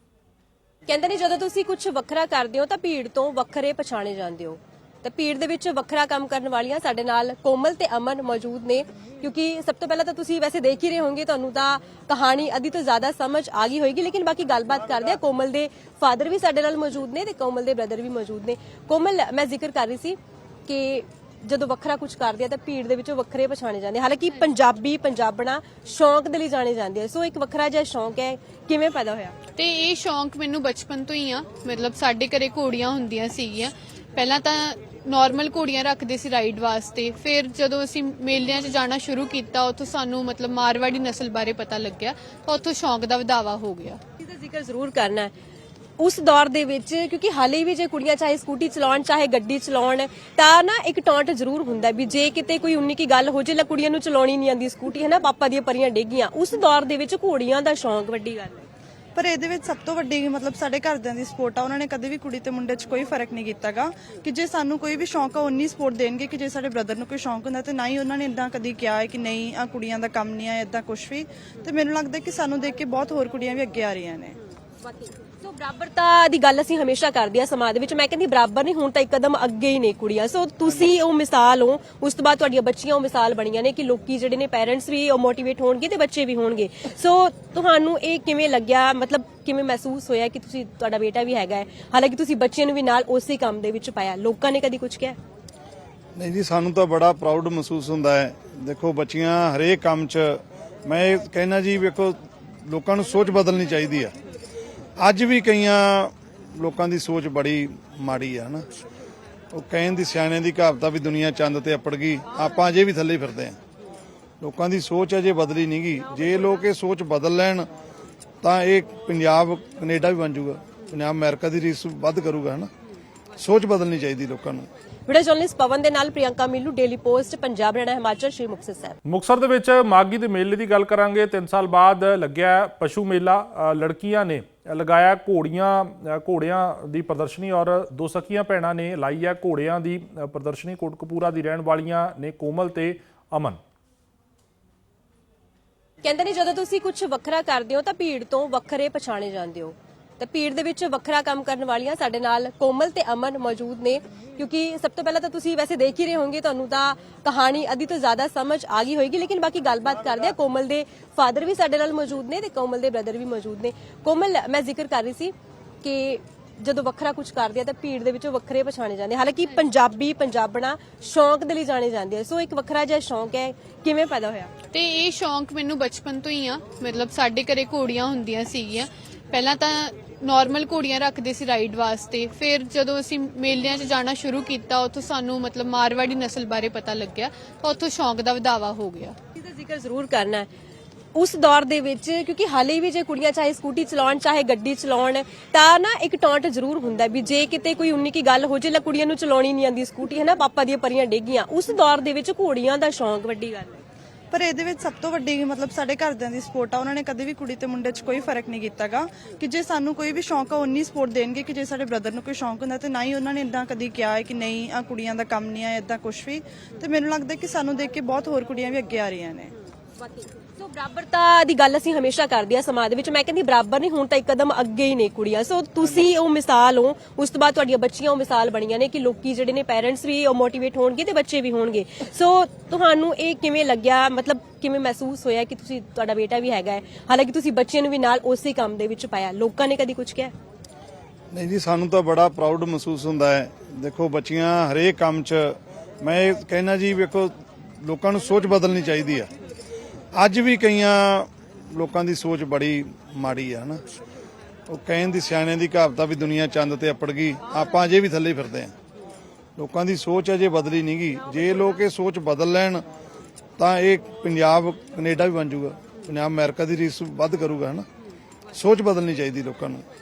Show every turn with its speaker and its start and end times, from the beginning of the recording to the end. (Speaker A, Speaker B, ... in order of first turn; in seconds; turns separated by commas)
Speaker A: 0.9-29.4, Speaker B: 29.6-44.0, Speaker A: 44.2-45.3, Speaker A: 46.0-58.7, Speaker C: 59.1-74.4, Speaker A: 75.4-95.2, Speaker D: 96.2-104.1, Speaker D: 105.0-108.7, Speaker D: 109.5-113.6, Speaker D: 114.4-117.7, Speaker D: 118.4-122.7, Speaker D: 123.4-124.7, Speaker A: 125.1-129.0, Speaker E: 129.1-143.6, Speaker A: 146.0-174.5, Speaker B: 174.7-189.2, Speaker A: 189.3-190.5, Speaker A: 191.1-203.8, Speaker C: 204.3-219.5, Speaker A: 220.6-240.3, Speaker D: 241.3-249.3, Speaker D: 250.1-253.8, Speaker D: 254.7-258.7, Speaker D: 259.6-262.8, Speaker D: 263.6-267.8, Speaker D: 268.5-269.8